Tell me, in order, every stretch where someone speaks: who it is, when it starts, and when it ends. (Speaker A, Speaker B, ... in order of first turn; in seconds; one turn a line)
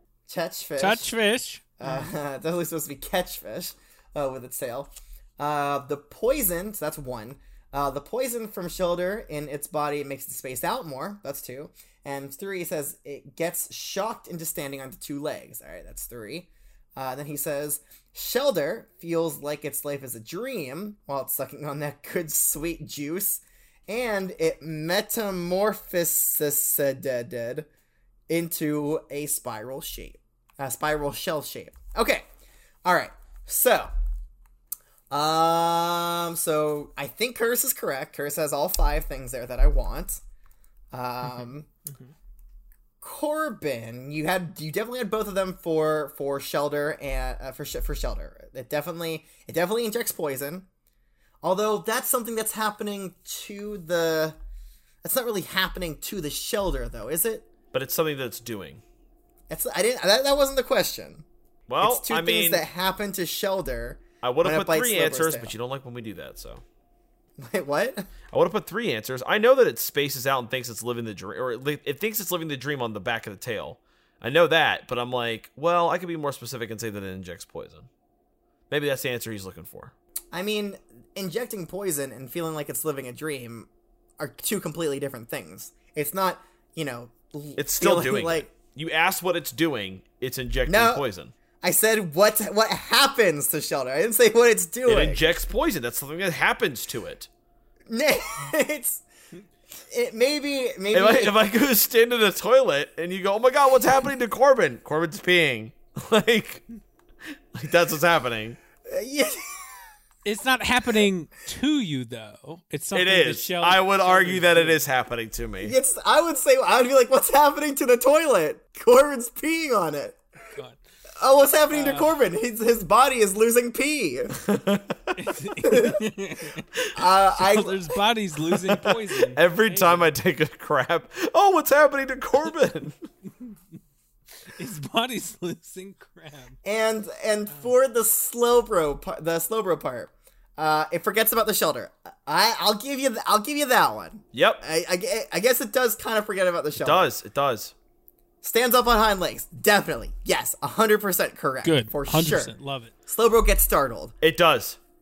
Speaker A: 0.3-1.1
Speaker B: 0.8-2.1
Speaker A: 1.8-27.7
Speaker A: 28.3-32.2
Speaker A: 32.8-33.9
Speaker A: 35.1-40.2
Speaker A: 40.9-41.7
Speaker B: 41.3-42.1
Speaker A: 43.0-50.6
Speaker A: 51.4-54.4
Speaker A: 55.0-57.5
Speaker C: 57.7-58.8
Speaker A: 59.5-61.2
Speaker C: 61.7-62.6
Speaker A: 61.8-65.5
Speaker C: 64.2-66.6
Speaker A: 67.4-68.1
Speaker C: 68.3-77.9
Speaker C: 78.7-79.9
Speaker A: 80.3-88.5
Speaker C: 87.6-91.3
Speaker A: 90.7-91.0
Speaker A: 91.6-95.4
Speaker C: 94.8-97.3
Speaker A: 97.9-99.0
Speaker A: 99.9-101.3
Speaker C: 100.9-106.6
Speaker C: 107.2-108.6
Speaker A: 108.9-109.8
Speaker B: 110.2-114.8
Speaker C: 112.9-115.8
Speaker A: 115.6-120.2
Speaker B: 120.5-120.8
Speaker A: 121.2-124.4
Speaker B: 121.7-122.1
Speaker C: 124.4-125.3
Speaker B: 125.2-126.6
Speaker A: 125.6-126.0
Speaker A: 126.9-127.9
Speaker B: 127.3-130.1
Speaker C: 128.5-132.9
Speaker B: 134.5-136.6
Speaker A: 136.6-147.1
Speaker C: 144.3-144.6
Speaker C: 146.8-147.7
Speaker A: 148.4-152.5
Speaker B: 151.6-152.9
Speaker A: 153.1-154.1
Speaker C: 154.2-154.8